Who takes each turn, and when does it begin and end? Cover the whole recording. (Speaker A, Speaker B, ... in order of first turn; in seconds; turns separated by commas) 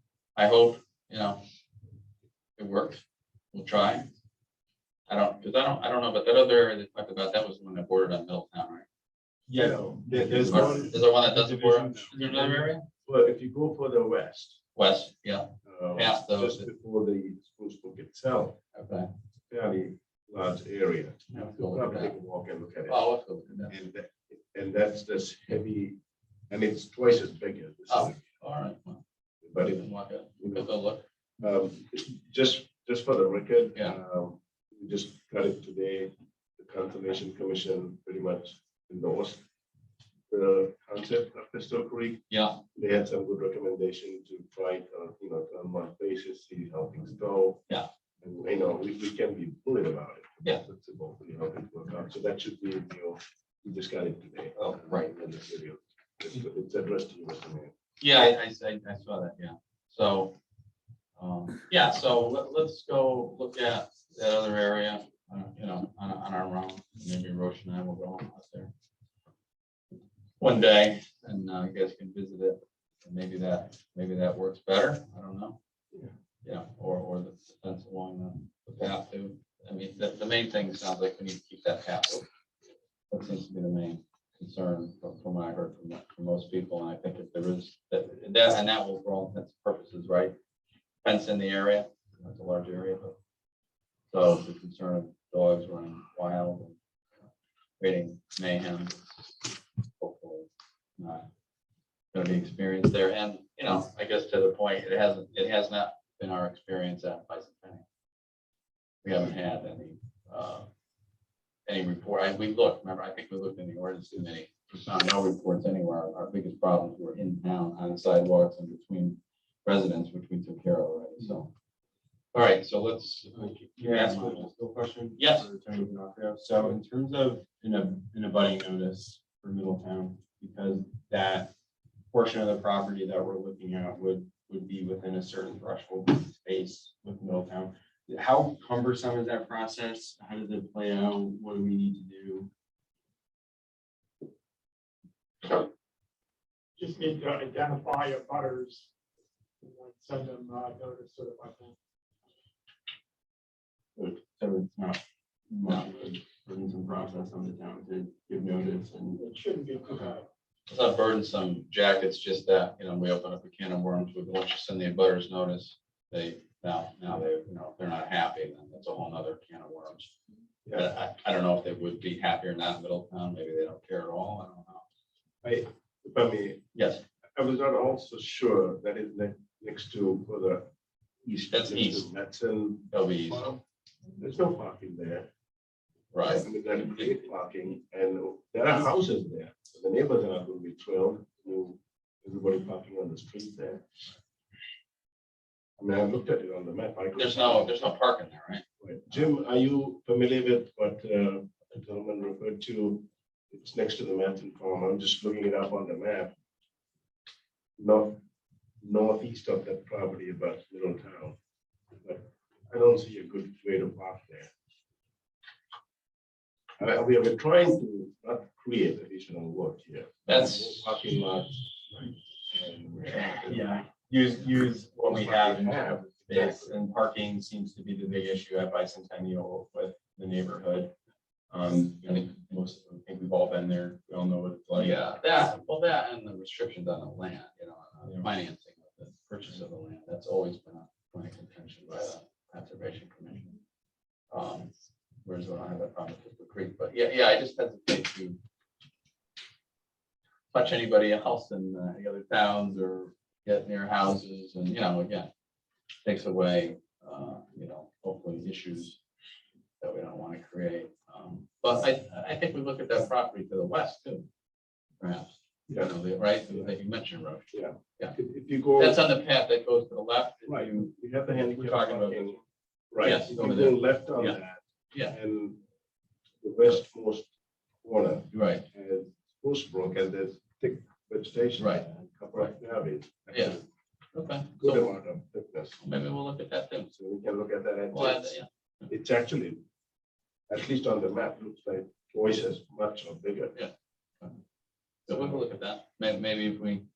Speaker A: 0.4-1.4, Speaker A: 2.6-3.0, Speaker A: 3.5-4.1, Speaker A: 5.1-8.9, Speaker B: 9.5-12.7, Speaker C: 9.6-11.0, Speaker A: 10.4-12.8, Speaker C: 13.1-14.6, Speaker A: 14.8-16.7, Speaker C: 15.7-18.6, Speaker A: 18.7-19.1, Speaker C: 19.5-23.0, Speaker A: 21.3-22.1, Speaker A: 22.9-23.8, Speaker C: 23.7-26.0, Speaker C: 26.5-28.2, Speaker A: 27.9-29.0, Speaker C: 29.5-29.9, Speaker A: 29.6-31.1, Speaker C: 30.4-30.7, Speaker C: 31.4-39.4, Speaker C: 40.3-42.2, Speaker A: 42.3-42.6, Speaker C: 42.8-47.6, Speaker C: 48.2-57.7, Speaker A: 54.6-55.1, Speaker A: 58.0-60.3, Speaker A: 61.2-68.7, Speaker A: 70.4-75.6, Speaker A: 76.4-82.3, Speaker A: 83.1-90.3, Speaker A: 91.0-93.2, Speaker A: 94.1-96.8, Speaker A: 97.8-99.5, Speaker A: 100.0-100.5, Speaker A: 101.0-101.3, Speaker A: 102.1-107.8, Speaker A: 109.0-110.7, Speaker A: 111.7-121.5, Speaker A: 122.3-124.5, Speaker B: 123.6-131.5, Speaker A: 125.2-125.5, Speaker B: 132.1-142.5, Speaker D: 146.8-148.9, Speaker D: 149.6-151.8, Speaker B: 154.0-155.0, Speaker B: 155.5-159.2, Speaker D: 159.2-160.2, Speaker A: 160.7-170.1, Speaker A: 170.7-174.8, Speaker C: 175.4-176.7, Speaker A: 176.8-177.0, Speaker C: 177.4-180.7, Speaker C: 181.2-183.6, Speaker A: 181.5-182.1, Speaker A: 182.9-183.6, Speaker C: 184.2-185.3, Speaker A: 186.1-187.1, Speaker C: 186.2-193.8, Speaker C: 195.8-197.8, Speaker A: 197.2-198.6, Speaker C: 198.8-206.3, Speaker C: 207.8-208.2, Speaker C: 208.8-211.4, Speaker C: 212.0-214.5, Speaker C: 216.8-223.7, Speaker A: 220.3-220.9, Speaker B: 223.5-230.9, Speaker C: 225.0-226.8, Speaker B: 231.5-235.1, Speaker A: 234.7-243.6, Speaker A: 244.3-244.7, Speaker A: 245.2-248.4, Speaker A: 250.5-255.3, Speaker A: 256.0-259.0, Speaker A: 259.8-264.3, Speaker A: 265.0-268.2, Speaker C: 266.5-266.7, Speaker C: 267.5-269.0, Speaker A: 268.8-272.4, Speaker C: 270.5-272.4, Speaker C: 272.9-275.6, Speaker A: 273.0-274.4, Speaker C: 276.4-277.3, Speaker C: 277.8-283.6, Speaker A: 278.3-278.7, Speaker A: 281.6-282.6, Speaker A: 283.3-283.6, Speaker A: 284.1-284.9, Speaker C: 284.6-285.8, Speaker A: 285.8-286.9, Speaker C: 287.0-288.3, Speaker A: 287.9-288.5, Speaker C: 288.9-289.6, Speaker C: 290.5-293.5, Speaker A: 293.5-294.4, Speaker A: 295.1-296.9